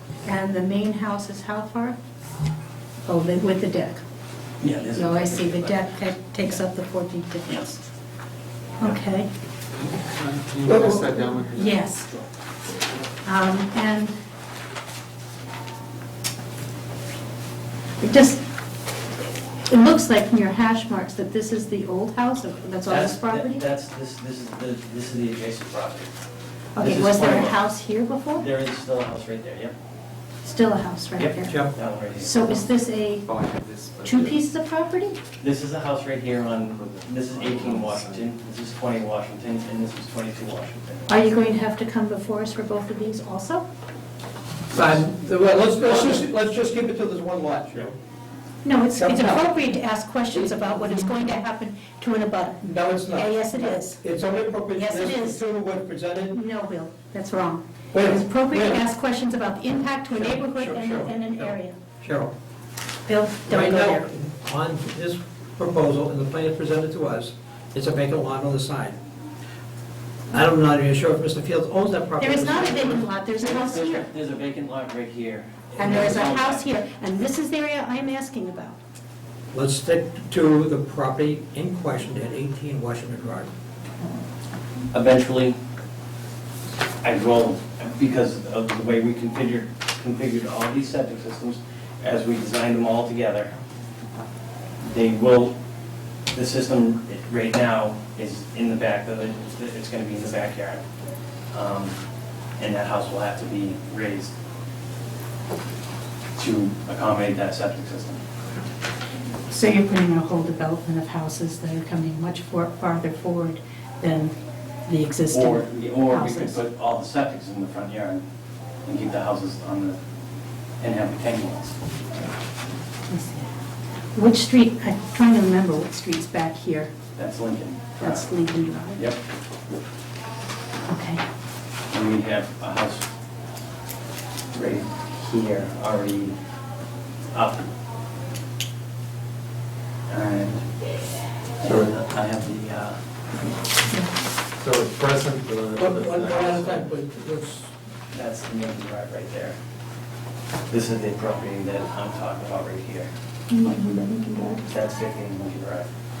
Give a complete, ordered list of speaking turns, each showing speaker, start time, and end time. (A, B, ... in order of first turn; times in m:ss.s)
0:00.2-0:02.0 A
0:03.0-0:04.0 A
0:04.6-0:05.9 B
0:04.9-0:07.8 A
0:07.4-0:07.8 B
0:08.8-0:09.3 A
0:09.8-0:11.8 C
0:10.6-0:11.3 D
0:11.5-0:12.2 A
0:13.2-0:14.1 A
0:18.0-0:18.4 A
0:19.7-0:23.6 A
0:22.9-0:26.1 B
0:26.7-0:28.4 A
0:26.8-0:27.6 B
0:28.4-0:29.7 B
0:30.4-0:31.6 A
0:31.2-0:32.4 B
0:31.5-0:31.7 D
0:32.2-0:33.3 A
0:33.2-0:34.4 C
0:34.0-0:35.2 A
0:35.4-0:41.4 B
0:36.5-0:38.3 C
0:41.1-0:43.6 A
0:44.7-0:47.9 D
0:48.6-0:54.0 A
0:49.0-0:49.5 D
0:50.3-0:50.7 D
0:52.6-0:56.4 D
0:54.7-0:55.4 A
0:56.3-1:01.8 A
0:57.9-0:58.8 D
1:00.2-1:02.3 D
1:03.0-1:04.0 A
1:03.5-1:09.0 D
1:10.3-1:13.0 D
1:12.2-1:14.1 A
1:13.4-1:16.6 B
1:15.8-1:18.8 A
1:19.5-1:23.5 D
1:24.9-1:25.5 B
1:27.0-1:33.5 B
1:34.8-1:35.5 B
1:36.3-1:40.8 B
1:41.5-1:41.9 B
1:42.6-1:44.3 B
1:46.4-1:48.2 B
1:49.5-1:54.3 A
1:54.8-1:56.6 A
1:55.3-1:58.2 B
1:58.8-2:00.0 B
2:00.8-2:01.8 B
2:03.1-2:03.5 A
2:04.1-2:06.9 A
2:07.2-2:08.2 B
2:08.0-2:09.0 A
2:10.8-2:11.2 A
2:11.9-2:13.1 B
2:14.5-2:16.4 B
2:17.3-2:17.7 B
2:20.1-2:20.6 B
2:21.6-2:23.6 B
2:21.6-2:21.9 C
2:24.6-2:26.8 C
2:25.8-2:27.7 D
2:28.1-2:29.5 B
2:30.7-2:33.1 B
2:33.6-2:34.6 A
2:34.6-2:35.9 B